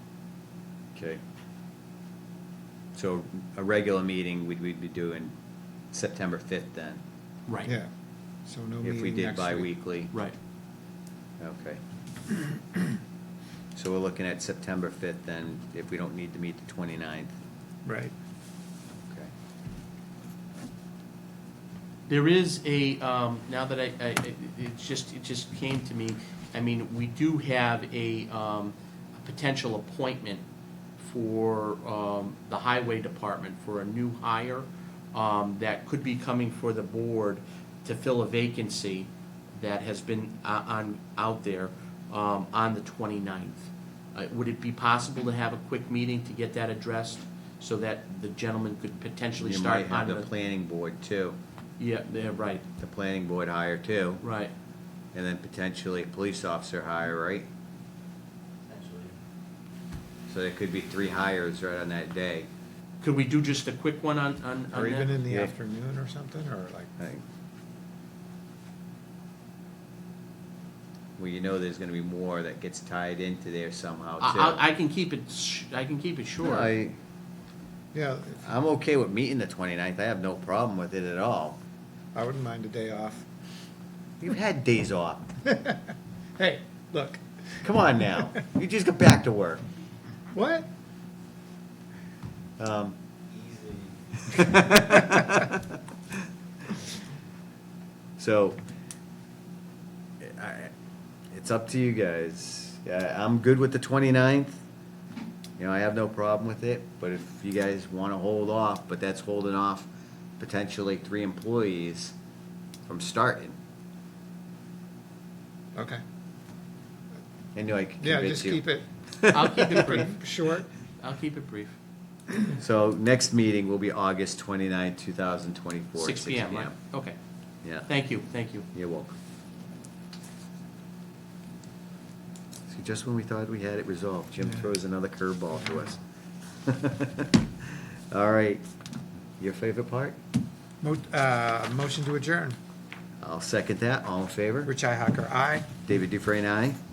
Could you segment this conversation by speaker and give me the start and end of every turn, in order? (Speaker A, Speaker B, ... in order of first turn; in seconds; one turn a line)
Speaker A: 0.9-1.2
Speaker A: 3.0-5.3
Speaker A: 5.9-7.0
Speaker B: 7.5-7.7
Speaker C: 8.5-9.7
Speaker A: 8.8-10.1
Speaker A: 11.4-11.8
Speaker A: 13.8-17.3
Speaker C: 17.9-18.1
Speaker B: 22.1-30.4
Speaker B: 31.0-50.3
Speaker A: 49.4-51.4
Speaker B: 51.8-52.6
Speaker A: 52.8-54.2
Speaker B: 54.2-54.5
Speaker A: 55.1-57.5
Speaker B: 58.7-59.1
Speaker A: 60.3-62.5
Speaker B: 63.0-65.1
Speaker A: 64.8-65.5
Speaker C: 64.8-66.9
Speaker A: 67.0-67.2
Speaker A: 71.2-74.6
Speaker B: 74.2-76.7
Speaker A: 76.4-77.0
Speaker C: 77.9-78.4
Speaker A: 78.4-81.6
Speaker C: 82.2-83.2
Speaker A: 84.2-85.3
Speaker C: 85.5-85.8
Speaker C: 86.4-87.2
Speaker A: 87.6-89.6
Speaker C: 90.3-90.7
Speaker A: 92.6-95.7
Speaker A: 98.2-98.6
Speaker A: 100.2-100.7
Speaker A: 101.3-104.6
Speaker A: 105.6-112.1
Speaker A: 112.9-113.5
Speaker C: 115.8-116.0
Speaker A: 117.5-120.0
Speaker C: 118.0-118.9
Speaker B: 119.3-120.2
Speaker C: 119.4-120.7
Speaker B: 121.0-121.8
Speaker A: 122.5-126.7
Speaker B: 126.0-127.2
Speaker A: 127.6-127.9
Speaker B: 127.9-128.7
Speaker A: 128.7-129.1
Speaker A: 132.7-136.0
Speaker A: 136.6-138.6
Speaker A: 139.4-140.2
Speaker C: 140.8-142.6
Speaker A: 143.2-144.7
Speaker C: 144.7-145.8
Speaker A: 145.8-146.8